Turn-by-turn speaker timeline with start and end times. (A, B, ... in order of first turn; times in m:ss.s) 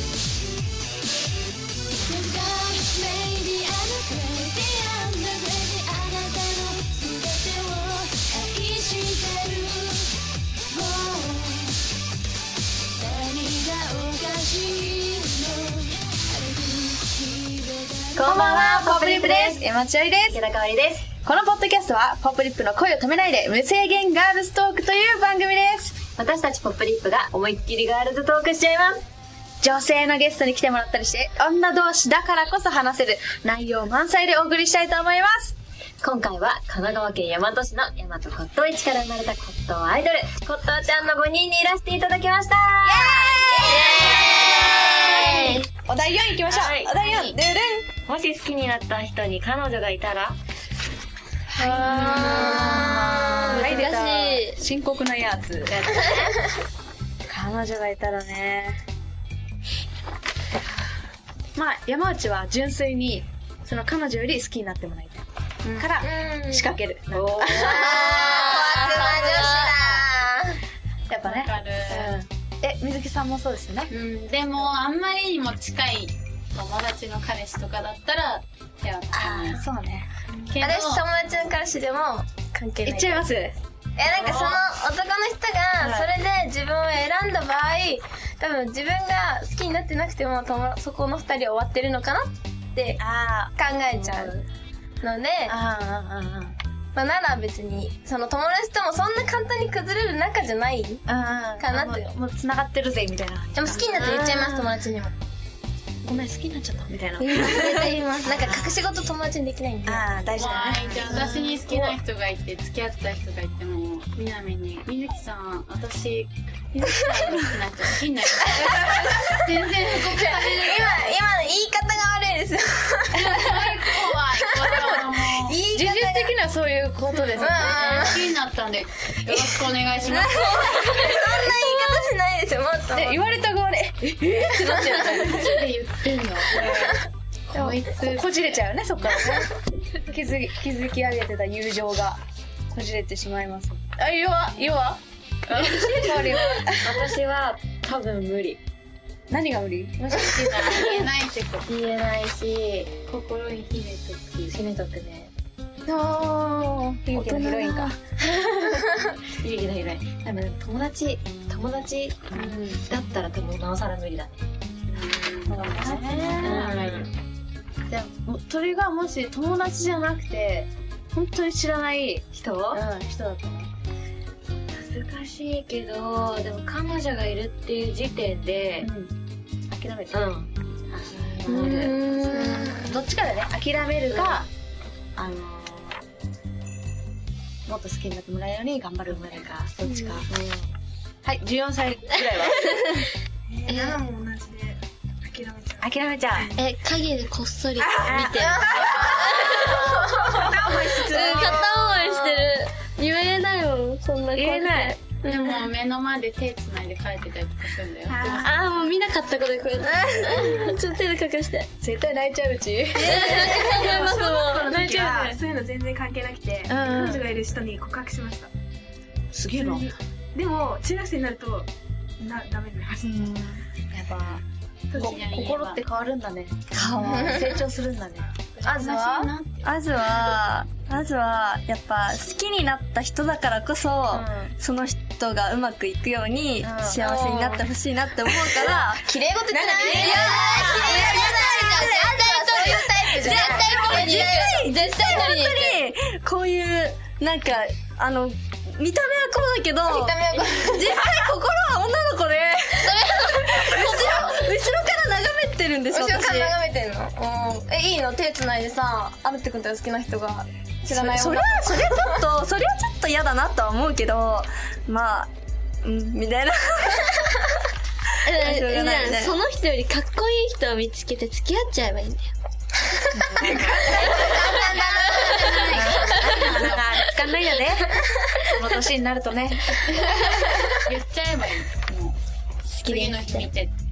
0:02.1-0:10.1 A
0:10.8-0:11.4 A
0:13.3-0:15.9 A
0:16.7-0:18.0 A
0:18.2-0:19.7 B
0:18.2-0:20.4 C
0:20.3-0:21.1 B
0:21.2-0:26.0 C
0:26.2-0:29.0 B
0:29.6-0:35.5 C
0:36.0-0:45.6 B
0:42.8-0:47.9 C
0:44.0-0:45.7 A
0:46.5-0:47.3 B
0:48.1-0:50.4 B
0:51.5-0:55.8 C
0:51.9-0:52.9 D
0:51.9-0:54.6 B
0:52.1-0:52.8 A
0:53.4-0:53.9 A
0:56.1-0:56.3 D
0:57.3-0:58.8 C
1:01.6-1:05.2 C
1:05.6-1:06.0 E
1:05.8-1:09.5 C
1:06.0-1:06.8 D
1:07.2-1:09.6 B
1:07.5-1:10.6 D
1:08.1-1:09.7 A
1:11.1-1:13.9 C
1:11.2-1:12.1 E
1:13.9-1:19.7 E
1:19.1-1:20.1 C
1:20.5-1:21.0 E
1:20.6-1:23.3 D
1:22.8-1:23.5 C
1:24.0-1:33.0 D
1:24.2-1:24.6 E
1:24.2-1:24.6 C
1:25.8-1:26.1 C
1:33.0-1:34.4 C
1:33.6-1:34.4 D
1:35.0-1:35.6 D
1:35.5-1:36.6 C
1:37.0-1:41.0 D
1:41.1-1:44.2 C
1:41.6-1:42.1 D
1:43.6-1:45.1 D
1:46.0-1:48.8 C
1:47.2-1:50.1 D
1:49.9-1:51.6 C
1:50.4-2:01.1 E
1:50.9-1:51.9 D
2:00.2-2:03.3 D
2:03.2-2:05.6 E
2:04.5-2:04.9 D
2:05.4-2:06.3 D
2:05.7-2:07.8 C
2:07.1-2:10.8 E
2:07.4-2:08.3 D
2:10.2-2:13.3 D
2:10.5-2:11.2 F
2:12.9-2:15.7 C
2:14.6-2:15.3 D
2:15.0-2:16.9 E
2:16.5-2:17.0 C
2:16.6-2:17.0 D
2:17.5-2:18.3 E
2:17.5-2:25.0 C
2:25.5-2:26.2 E
2:25.6-2:27.0 C
2:26.7-2:28.6 B
2:29.3-2:30.4 C
2:30.1-2:31.7 E
2:31.7-2:32.9 B
2:33.1-2:34.6 E
2:34.5-2:35.3 B
2:35.9-2:38.0 C
2:37.2-2:37.8 B
2:39.2-2:44.4 B
2:42.3-2:42.8 C
2:44.9-2:46.0 E
2:45.5-2:46.8 C
2:45.7-2:47.1 B
2:46.5-2:46.9 E
2:47.9-2:53.7 C
2:52.4-2:52.8 B
2:54.7-2:58.9 B
2:58.8-2:59.1 C
2:59.7-3:00.2 C
3:00.1-3:00.5 B
3:00.9-3:04.5 C
3:01.3-3:02.0 B
3:01.5-3:03.0 D
3:04.1-3:04.4 B
3:05.2-3:06.0 C
3:07.7-3:10.6 C
3:11.2-3:13.0 C
3:13.5-3:16.5 G
3:15.8-3:16.5 C
3:16.6-3:19.7 B
3:17.8-3:18.1 G
3:17.8-3:18.1 A
3:18.0-3:19.0 C
3:18.4-3:20.5 D
3:20.2-3:21.6 G
3:20.8-3:21.5 C
3:21.1-3:25.0 B
3:21.3-3:25.3 A
3:24.3-3:25.0 C
3:25.2-3:28.2 E
3:28.1-3:28.5 C
3:28.1-3:28.4 G
3:28.4-3:31.6 B
3:28.6-3:31.7 A
3:29.9-3:30.3 F
3:31.8-3:34.0 C
3:33.1-3:35.2 A
3:33.1-3:34.6 B
3:33.2-3:38.5 G
3:35.0-3:35.3 C
3:36.7-3:37.2 C
3:39.3-3:39.9 C
3:40.4-3:41.7 G
3:42.2-3:43.1 G
3:43.0-3:48.3 C
3:44.9-3:45.8 E
3:46.7-3:47.4 F
3:47.1-3:47.6 D
3:48.6-3:50.4 E
3:48.7-3:49.3 D
3:49.6-4:02.2 F
3:54.1-3:54.5 C
3:56.6-3:57.1 C
3:57.1-3:57.6 D
3:59.0-4:05.8 D
4:00.9-4:01.5 C
4:01.8-4:03.4 E
4:02.8-4:16.6 F
4:03.2-4:04.4 C
4:03.7-4:04.4 A
4:09.8-4:11.1 D
4:15.9-4:22.2 D
4:20.8-4:25.3 F
4:25.8-4:27.3 F
4:28.2-4:29.4 F
4:28.3-4:32.1 B
4:28.3-4:32.2 A
4:33.2-4:34.2 C
4:33.4-4:37.2 E
4:33.8-4:35.9 D
4:35.6-4:37.9 C
4:38.5-4:40.1 C
4:38.6-4:38.9 E
4:40.1-4:42.2 E
4:42.8-4:43.7 E